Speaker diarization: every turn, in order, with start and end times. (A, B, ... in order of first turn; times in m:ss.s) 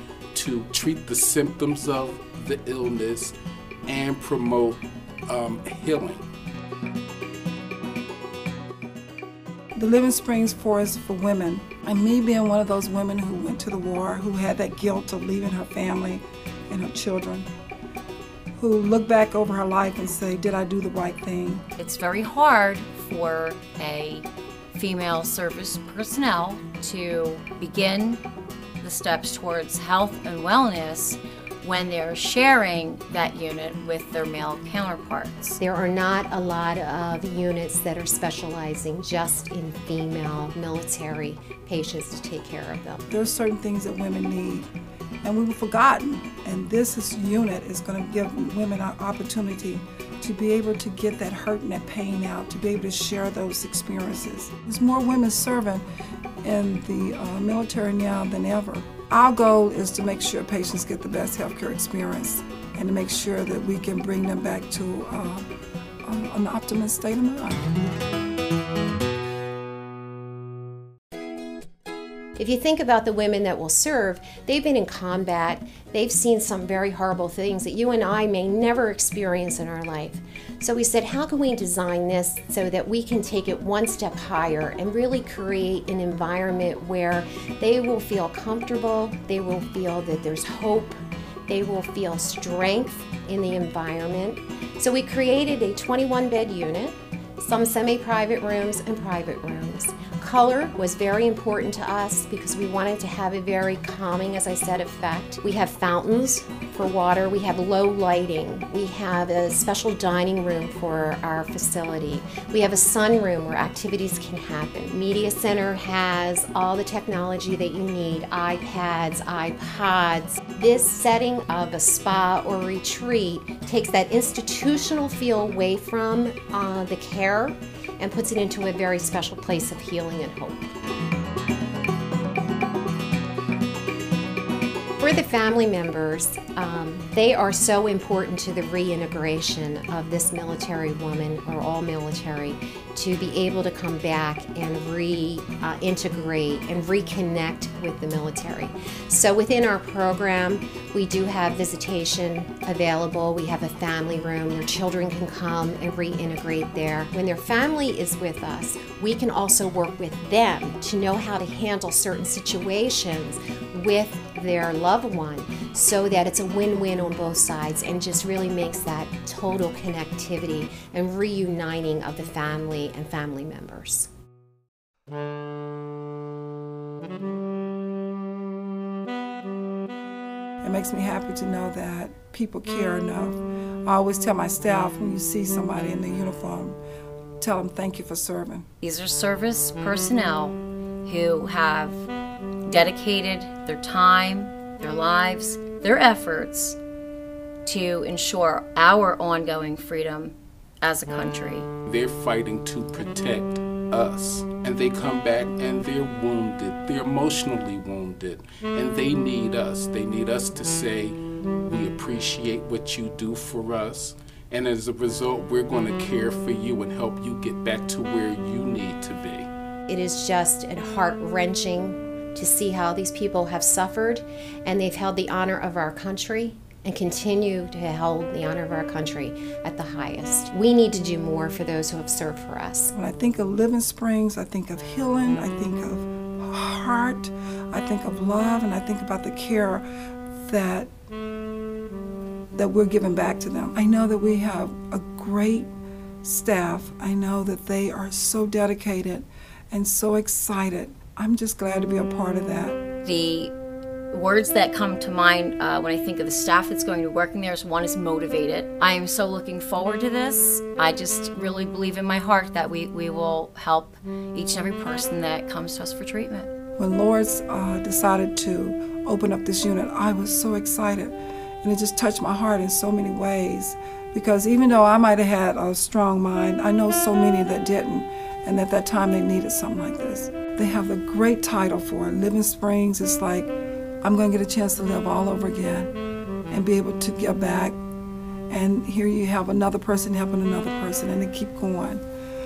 0:00.3-0:03.3 A
0:03.9-0:06.2 A
0:09.8-0:17.5 B
0:18.6-0:21.6 B
0:21.8-0:28.2 C
0:28.8-0:35.6 C
0:35.6-0:43.0 D
0:43.1-0:44.7 B
0:45.2-0:55.8 B
0:56.4-1:05.5 B
1:06.1-1:07.7 B
1:12.4-2:10.6 D
2:15.0-2:54.1 D
3:00.6-3:06.8 B
3:07.4-3:08.7 B
3:08.8-3:12.1 C
3:12.7-3:16.8 C
3:17.6-3:21.7 C
3:21.9-3:39.5 A
3:39.9-3:52.9 D
3:53.0-3:59.8 B
4:00.4-4:00.9 B
4:02.6-4:05.7 B
4:06.2-4:12.8 B
4:13.0-4:13.5 C
4:14.1-4:26.5 C
4:26.8-4:45.9 B
4:46.5-4:47.8 B
4:48.5-4:52.0 B